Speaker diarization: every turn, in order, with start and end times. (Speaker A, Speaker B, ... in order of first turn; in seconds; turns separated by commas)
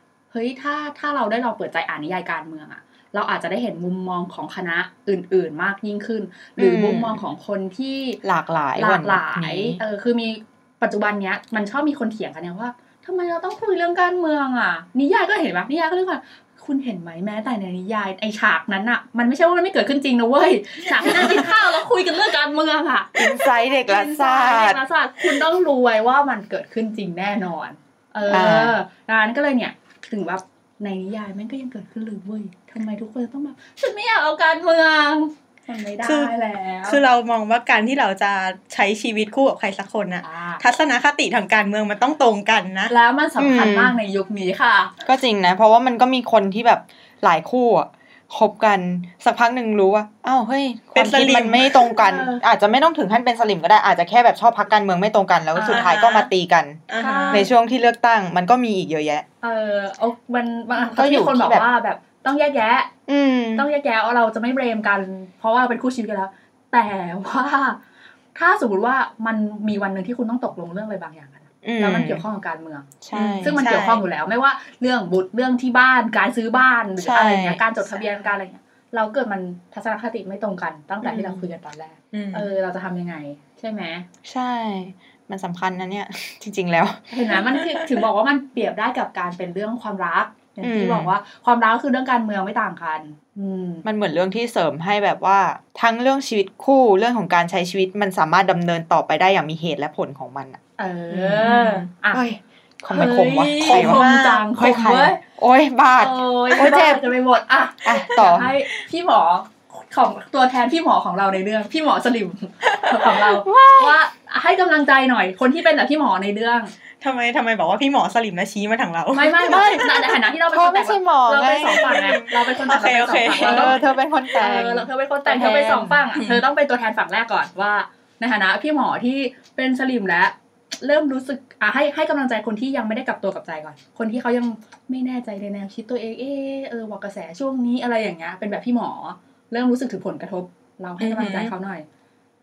Speaker A: 0.3-8.2, Speaker B: 6.6-7.2, Speaker B: 8.2-9.8, Speaker A: 8.8-37.0, Speaker B: 21.0-21.5, Speaker B: 23.1-24.8, Speaker B: 28.2-28.8, Speaker C: 36.0-36.3, Speaker C: 36.8-42.9, Speaker A: 40.2-40.6, Speaker A: 42.9-44.9, Speaker B: 43.4-44.0, Speaker B: 45.0-59.2, Speaker C: 50.9-51.7, Speaker A: 51.9-52.4, Speaker A: 55.5-55.9, Speaker C: 55.7-56.3, Speaker C: 56.9-57.5, Speaker A: 57.0-57.5, Speaker A: 59.4-62.9, Speaker B: 60.9-61.6, Speaker B: 63.1-63.6, Speaker A: 63.5-67.8, Speaker A: 68.3-84.1, Speaker B: 71.6-72.2, Speaker B: 73.0-73.6, Speaker C: 73.1-74.0, Speaker B: 77.0-77.8, Speaker B: 81.0-81.5, Speaker C: 82.1-82.5, Speaker B: 84.2-87.3, Speaker A: 87.1-93.8, Speaker B: 90.6-91.1, Speaker B: 93.8-100.6, Speaker A: 100.8-102.2, Speaker B: 101.1-101.5, Speaker C: 101.4-101.9, Speaker B: 102.1-107.1, Speaker A: 102.9-105.2, Speaker C: 103.6-104.4, Speaker A: 106.0-116.7, Speaker B: 107.8-108.5, Speaker B: 113.2-114.0, Speaker C: 117.0-119.7, Speaker A: 119.1-123.8, Speaker B: 119.3-122.2, Speaker C: 121.9-123.8, Speaker B: 123.3-126.0, Speaker A: 124.3-141.8, Speaker C: 126.1-126.4, Speaker C: 141.0-141.5